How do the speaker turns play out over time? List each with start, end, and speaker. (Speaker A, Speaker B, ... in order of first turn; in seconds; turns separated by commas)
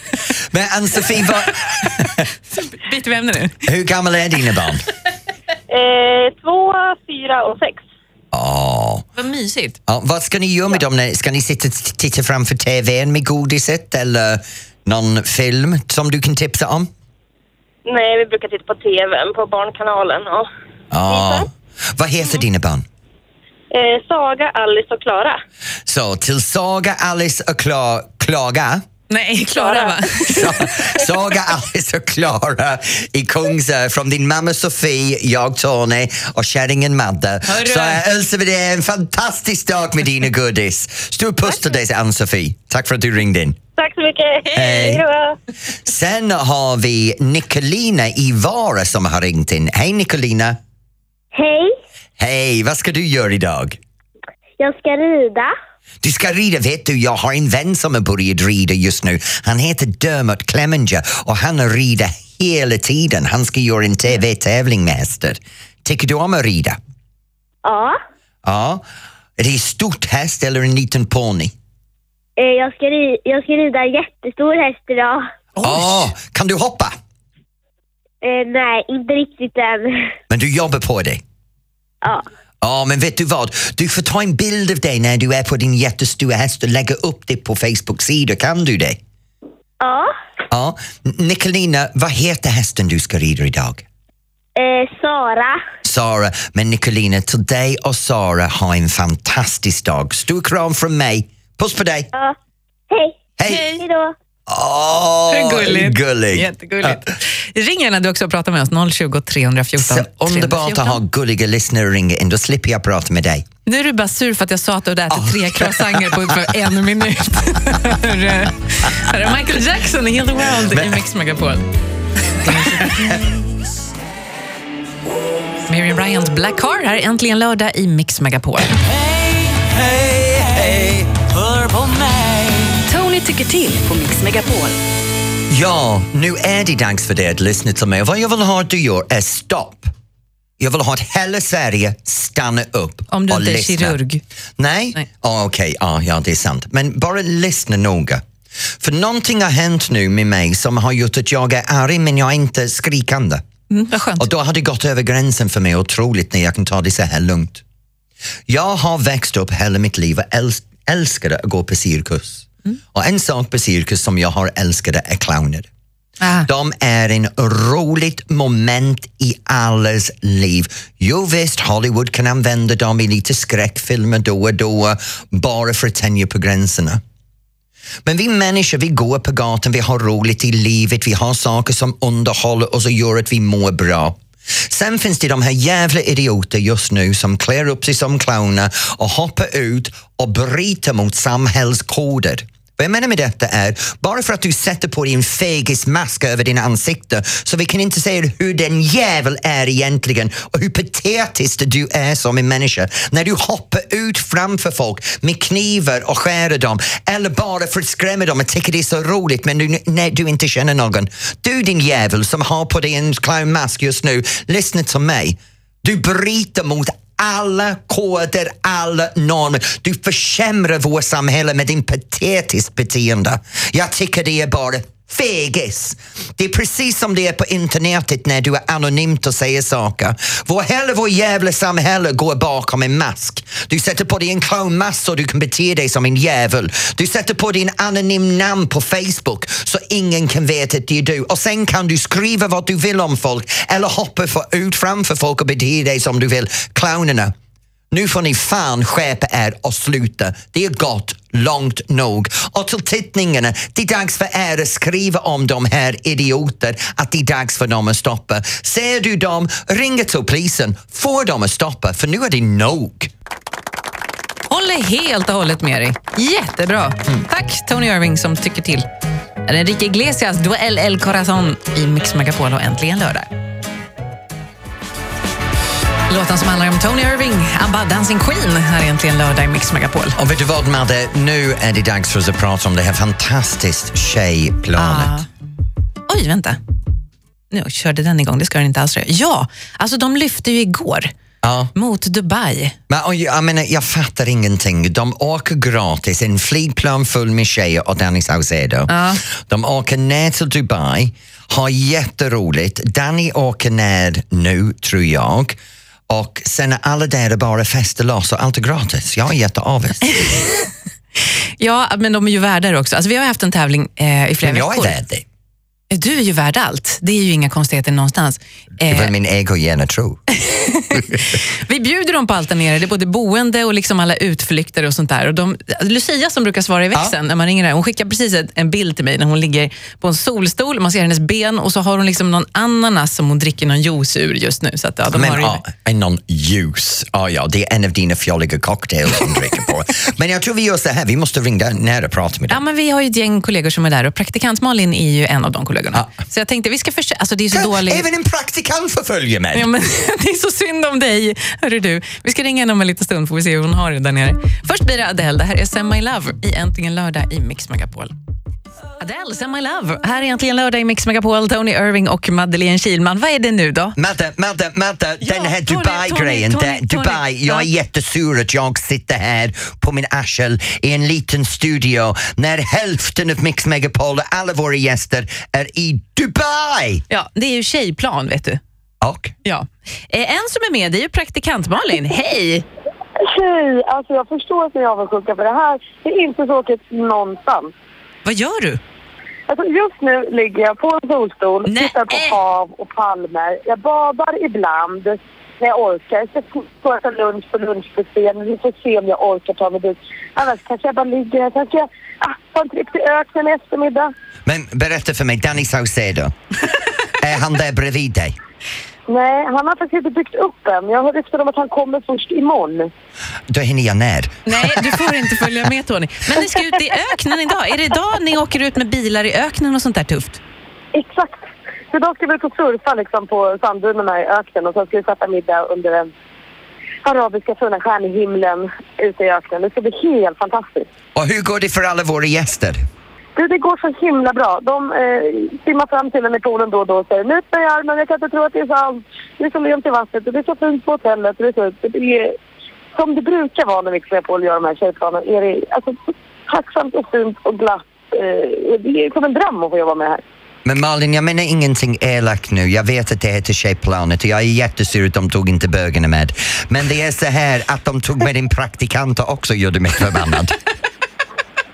Speaker A: 0.3-2.2, Speaker B: 1.8-3.6, Speaker A: 3.6-4.8, Speaker C: 5.7-7.8, Speaker A: 8.3-9.1, Speaker B: 9.2-9.8, Speaker A: 9.9-16.9, Speaker C: 17.9-20.5, Speaker A: 20.9-22.8, Speaker C: 21.1-21.5, Speaker C: 23.7-25.4, Speaker A: 25.9-28.8, Speaker B: 29.1-30.9, Speaker C: 29.6-30.2, Speaker A: 30.3-43.6, Speaker B: 37.4-38.0, Speaker C: 43.8-45.4, Speaker A: 44.5-45.0, Speaker A: 45.8-50.6, Speaker D: 51.3-51.7, Speaker A: 52.2-53.8, Speaker D: 54.6-55.5, Speaker A: 56.0-66.8, Speaker D: 67.6-68.0, Speaker A: 68.4-68.8, Speaker A: 69.4-71.5, Speaker D: 72.4-75.3, Speaker A: 75.6-77.0, Speaker D: 78.2-80.1, Speaker A: 80.3-81.2, Speaker A: 82.6-89.0, Speaker D: 89.8-90.1, Speaker A: 90.5-93.8, Speaker D: 94.6-95.6, Speaker A: 95.8-102.1, Speaker D: 102.9-103.2, Speaker A: 103.4-103.8, Speaker B: 103.5-103.8, Speaker D: 103.7-104.1, Speaker A: 104.5-107.1, Speaker B: 105.3-111.0, Speaker A: 109.8-113.5, Speaker B: 113.6-121.7, Speaker A: 115.1-116.5, Speaker A: 120.7-121.0, Speaker A: 122.4-123.7, Speaker B: 122.4-122.9, Speaker B: 125.7-128.8, Speaker A: 129.5-131.3, Speaker E: 131.4-134.8, Speaker A: 135.5-139.9, Speaker A: 140.6-144.0, Speaker B: 143.1-144.2, Speaker A: 144.6-148.2, Speaker A: 148.8-153.4, Speaker B: 153.7-154.3, Speaker A: 154.2-157.6, Speaker A: 158.5-165.7, Speaker B: 166.2-166.5, Speaker A: 166.5-177.0, Speaker A: 178.0-247.3, Speaker A: 247.9-263.1, Speaker B: 264.5-268.9, Speaker B: 269.4-273.3, Speaker B: 276.1-280.2, Speaker A: 280.2-285.1, Speaker B: 284.8-285.3, Speaker B: 286.1-286.6, Speaker B: 287.5-291.1, Speaker A: 291.4-291.7, Speaker B: 291.8-292.8, Speaker A: 292.9-305.6, Speaker B: 298.9-299.2, Speaker A: 306.1-310.3, Speaker B: 310.2-310.6, Speaker B: 311.6-315.0, Speaker A: 314.4-315.2, Speaker B: 315.9-319.1, Speaker A: 318.8-320.2, Speaker B: 320.4-335.6, Speaker A: 335.1-342.6, Speaker B: 342.5-348.0, Speaker A: 347.5-349.7, Speaker B: 349.5-358.1, Speaker B: 359.0-364.0, Speaker A: 364.0-377.0, Speaker B: 365.2-367.7, Speaker B: 377.1-378.6, Speaker A: 379.0-379.3, Speaker B: 379.4-382.6, Speaker F: 383.2-387.7, Speaker B: 388.2-388.8, Speaker F: 389.5-404.1, Speaker B: 391.6-392.4, Speaker A: 404.5-406.3, Speaker A: 407.2-408.4, Speaker F: 409.1-412.9, Speaker A: 413.5-415.4, Speaker B: 414.5-420.4, Speaker F: 420.9-426.1, Speaker F: 427.0-430.9, Speaker A: 431.1-432.8, Speaker F: 433.4-442.4, Speaker F: 442.9-446.0, Speaker F: 446.5-450.2, Speaker A: 450.6-460.6